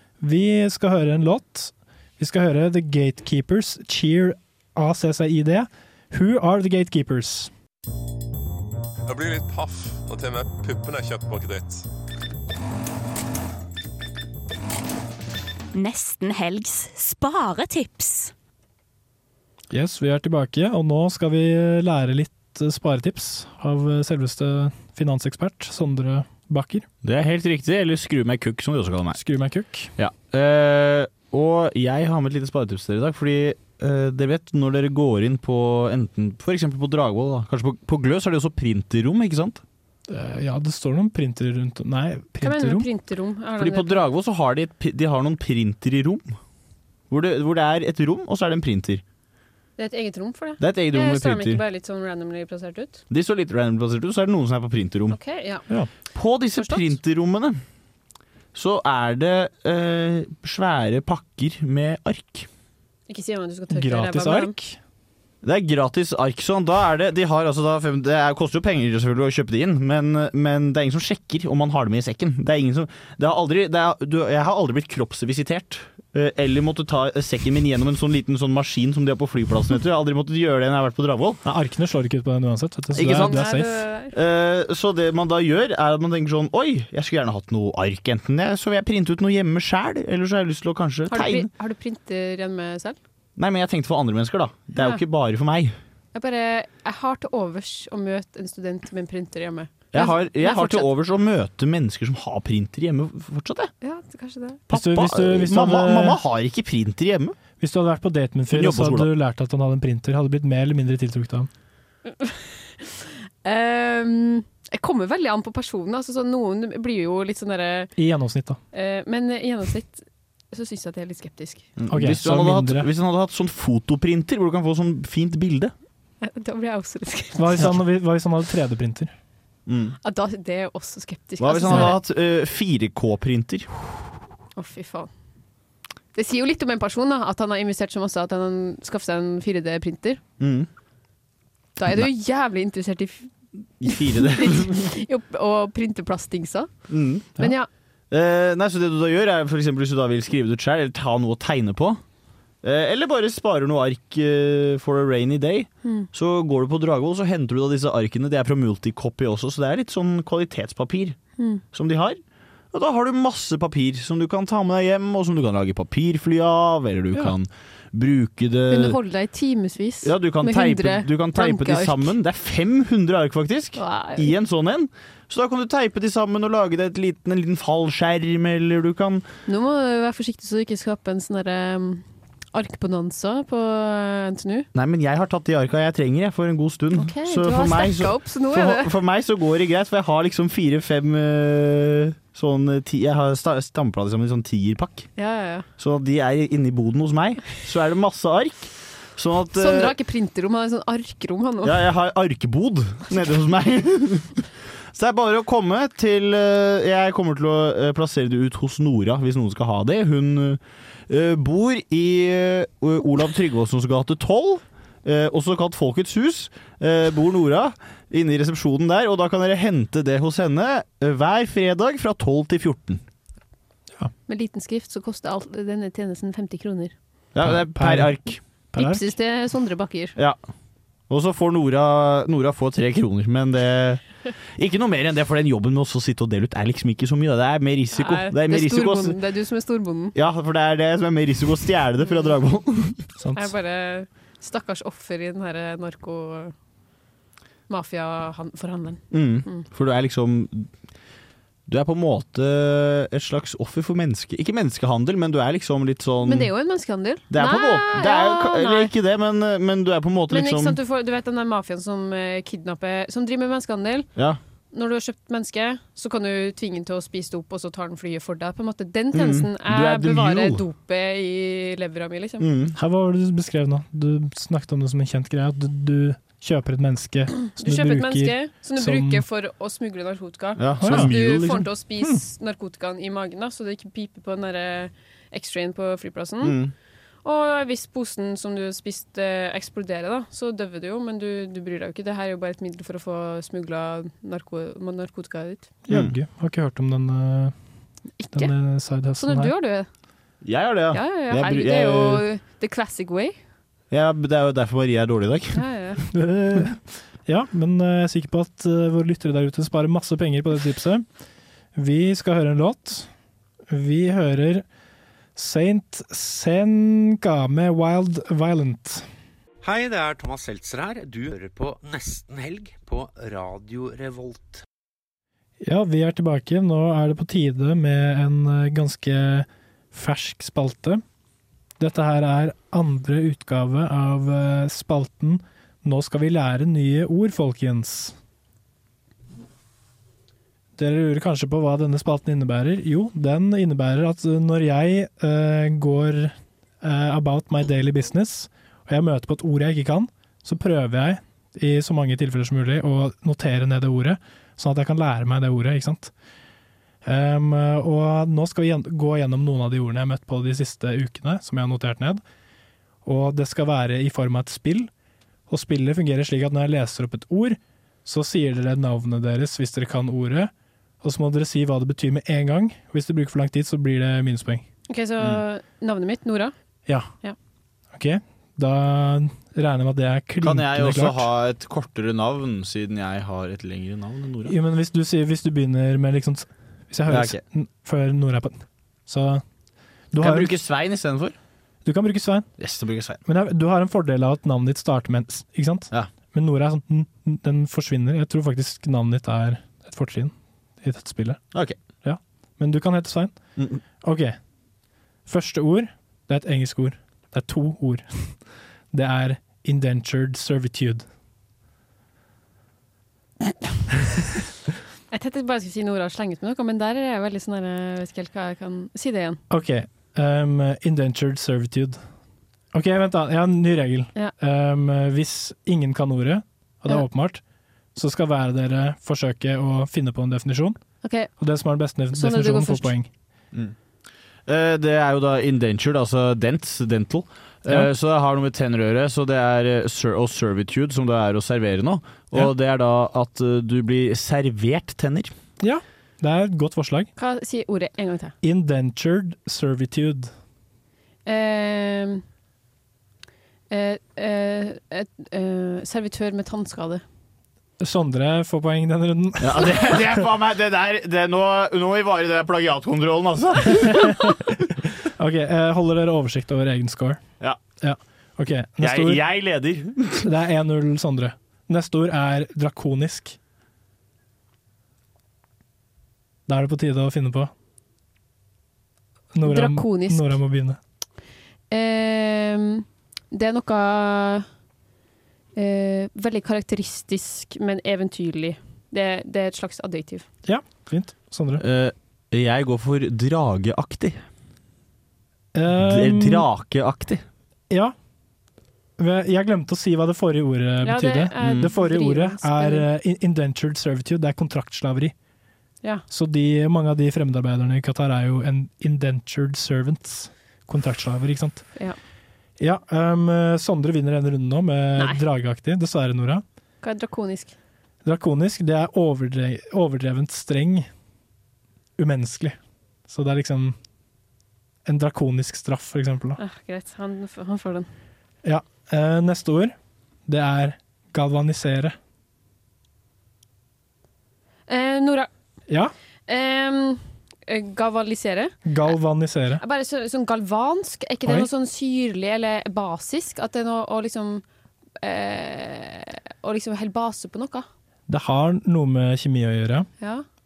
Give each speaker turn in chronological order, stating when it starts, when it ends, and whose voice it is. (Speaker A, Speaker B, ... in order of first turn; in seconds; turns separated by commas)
Speaker A: 0.2-7.5, Speaker B: 9.1-11.9, Speaker C: 15.7-18.3, Speaker A: 19.7-26.9, Speaker D: 27.0-29.2, Speaker A: 29.1-29.9, Speaker D: 30.0-39.6, Speaker A: 40.1-42.9, Speaker E: 42.4-44.0, Speaker D: 43.6-46.4, Speaker D: 47.1-49.0, Speaker E: 49.8-53.0, Speaker D: 50.6-51.6, Speaker D: 53.1-55.2, Speaker E: 55.1-55.7, Speaker D: 56.1-57.6, Speaker E: 56.6-56.9, Speaker D: 58.5-62.5, Speaker E: 63.1-64.5, Speaker A: 63.7-64.8, Speaker D: 65.4-81.4, Speaker A: 81.5-83.8, Speaker D: 82.9-83.5, Speaker E: 83.0-84.2, Speaker D: 84.1-91.5, Speaker E: 91.1-93.0, Speaker D: 93.4-95.8, Speaker E: 96.1-100.9, Speaker D: 99.9-103.7, Speaker E: 103.8-104.6, Speaker D: 104.7-107.4, Speaker A: 104.7-106.2, Speaker A: 107.6-111.5, Speaker D: 108.5-109.1, Speaker E: 112.1-117.9, Speaker A: 118.0-118.6, Speaker E: 118.7-121.7, Speaker D: 121.8-125.7, Speaker A: 121.9-122.9, Speaker E: 126.2-127.8, Speaker A: 127.4-129.1, Speaker D: 129.7-130.0, Speaker E: 130.0-132.0, Speaker D: 131.4-133.7, Speaker A: 131.7-131.9, Speaker E: 134.6-135.1, Speaker E: 136.2-140.2, Speaker D: 140.4-140.7, Speaker E: 141.8-143.3, Speaker D: 143.8-144.9, Speaker E: 143.9-146.7, Speaker D: 146.9-147.4, Speaker E: 147.4-147.7, Speaker D: 148.1-152.0, Speaker D: 152.6-161.2, Speaker D: 161.7-162.2, Speaker D: 162.7-169.0, Speaker E: 168.7-172.1, Speaker D: 170.0-179.2, Speaker E: 173.8-174.3, Speaker E: 179.5-184.7, Speaker D: 184.7-195.1, Speaker E: 186.9-188.9, Speaker E: 195.2-195.7, Speaker D: 195.8-199.9, Speaker E: 199.6-201.8, Speaker D: 201.6-223.0, Speaker E: 224.3-226.9, Speaker D: 227.3-228.4, Speaker A: 227.4-228.2, Speaker A: 228.7-229.0, Speaker E: 228.8-230.2, Speaker D: 231.1-234.0, Speaker D: 234.6-239.2, Speaker E: 237.9-240.2, Speaker D: 240.2-243.0, Speaker A: 243.2-243.5, Speaker E: 243.3-246.5, Speaker E: 247.7-249.7, Speaker D: 249.1-250.7, Speaker D: 251.7-256.5, Speaker E: 256.2-258.9, Speaker D: 257.3-260.8, Speaker E: 260.3-264.1, Speaker E: 264.7-272.5, Speaker D: 269.1-270.6, Speaker D: 272.4-272.8, Speaker A: 272.8-279.2, Speaker E: 277.6-286.6, Speaker D: 280.6-281.7, Speaker A: 280.8-281.1, Speaker D: 286.4-286.7, Speaker E: 287.2-295.7, Speaker A: 295.9-297.6, Speaker E: 298.2-298.5, Speaker A: 298.3-299.5, Speaker E: 299.2-299.9, Speaker D: 300.4-302.2, Speaker E: 300.9-303.4, Speaker D: 303.9-305.6, Speaker E: 305.5-306.0, Speaker A: 306.1-311.1, Speaker A: 311.8-313.1, Speaker A: 313.7-314.6, Speaker A: 315.4-319.1, Speaker F: 319.6-324.6, Speaker A: 325.6-331.0, Speaker A: 331.8-338.1, Speaker A: 340.8-356.1, Speaker A: 357.1-362.2, Speaker A: 363.1-364.9, Speaker A: 365.5-370.5, Speaker A: 371.0-374.6, Speaker E: 374.9-376.5, Speaker A: 377.9-381.3, Speaker D: 380.4-384.6, Speaker A: 384.4-389.4, Speaker D: 387.1-387.4, Speaker A: 390.1-390.6, Speaker D: 390.2-391.4, Speaker A: 391.9-392.5, Speaker D: 392.6-393.2, Speaker A: 393.2-401.4, Speaker A: 402.0-403.4, Speaker A: 404.0-404.4, Speaker A: 405.3-408.4, Speaker A: 408.9-411.0, Speaker E: 415.1-419.4, Speaker A: 419.5-422.0, Speaker A: 422.7-427.4, Speaker A: 427.9-430.8, Speaker E: 431.0-431.3, Speaker A: 431.4-433.1, Speaker E: 432.1-432.9, Speaker D: 434.5-445.3, Speaker A: 445.6-447.1, Speaker E: 447.2-448.3, Speaker A: 448.4-450.3, Speaker E: 451.3-452.2, Speaker E: 453.7-457.0, Speaker A: 457.8-459.9, Speaker D: 459.4-464.6, Speaker A: 465.2-467.2, Speaker A: 467.8-469.2, Speaker D: 468.8-470.3, Speaker A: 470.2-473.4, Speaker A: 476.5-477.5, Speaker A: 479.4-480.8, Speaker E: 479.4-480.4, Speaker E: 481.7-484.5, Speaker E: 485.6-490.3, Speaker A: 490.4-491.6, Speaker D: 491.6-494.2, Speaker A: 495.6-496.5, Speaker D: 495.7-497.2, Speaker A: 499.0-505.1, Speaker E: 500.8-502.9, Speaker D: 501.4-501.7, Speaker A: 506.1-511.7, Speaker A: 512.6-516.4, Speaker E: 516.8-517.6, Speaker A: 518.0-520.9, Speaker A: 522.0-522.6, Speaker A: 523.1-523.8, Speaker A: 524.9-526.4, Speaker E: 526.4-527.9, Speaker A: 528.4-529.8, Speaker A: 530.3-532.0, Speaker E: 534.7-535.3, Speaker E: 536.3-538.6, Speaker A: 538.6-539.6, Speaker E: 539.6-544.4, Speaker E: 545.0-547.7, Speaker A: 548.1-549.9, Speaker E: 550.0-550.2